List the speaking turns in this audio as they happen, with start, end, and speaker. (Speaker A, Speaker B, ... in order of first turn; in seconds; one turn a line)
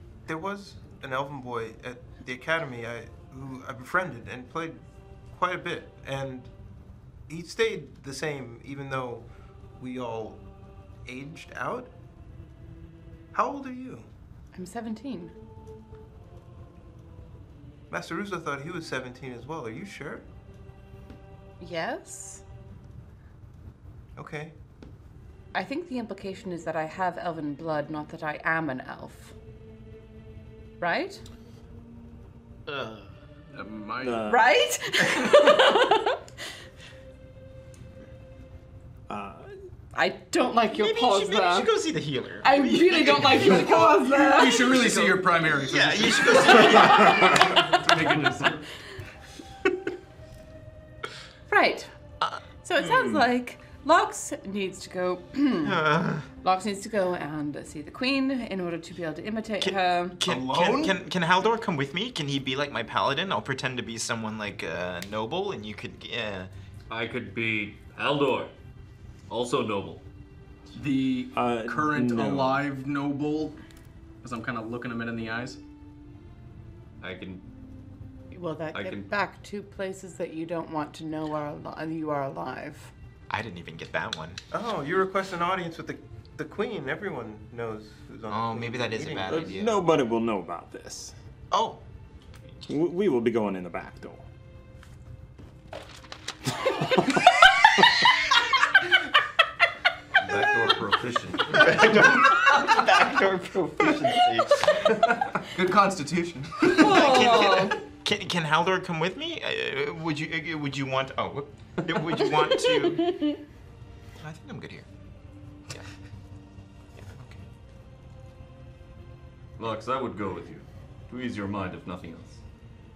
Speaker A: 0.3-6.5
Speaker A: 7.3-9.3
Speaker A: 9.8-10.4
Speaker A: 11.1-11.9
Speaker A: 13.3-14.1
Speaker B: 14.5-15.3
Speaker A: 17.9-20.2
Speaker B: 21.6-22.4
Speaker A: 24.2-24.6
Speaker B: 25.5-29.4
Speaker B: 30.8-31.2
Speaker C: 32.7-33.1
Speaker D: 33.5-34.2
Speaker E: 34.0-34.5
Speaker B: 34.3-36.2
Speaker E: 39.1-39.5
Speaker B: 39.9-41.7
Speaker C: 40.7-44.0
Speaker B: 42.4-44.8
Speaker D: 44.1-48.7
Speaker C: 44.9-47.8
Speaker B: 51.5-51.9
Speaker B: 52.6-60.2
Speaker C: 55.6-56.3
Speaker C: 59.6-66.5
Speaker D: 60.2-60.9
Speaker F: 66.9-68.5
Speaker F: 69.3-70.0
Speaker D: 70.7-73.6
Speaker E: 71.3-72.6
Speaker D: 74.2-75.6
Speaker F: 77.0-77.5
Speaker B: 78.3-82.9
Speaker F: 78.7-79.1
Speaker C: 83.3-84.4
Speaker A: 84.5-89.5
Speaker C: 88.3-89.7
Speaker E: 89.3-91.1
Speaker C: 91.5-91.8
Speaker E: 92.7-94.2
Speaker F: 100.2-102.3
Speaker C: 101.5-104.9
Speaker D: 105.4-107.0
Speaker B: 106.7-107.8
Speaker C: 106.7-113.3
Speaker B: 112.6-113.4
Speaker C: 114.2-114.9
Speaker C: 117.0-117.4
Speaker F: 119.6-122.4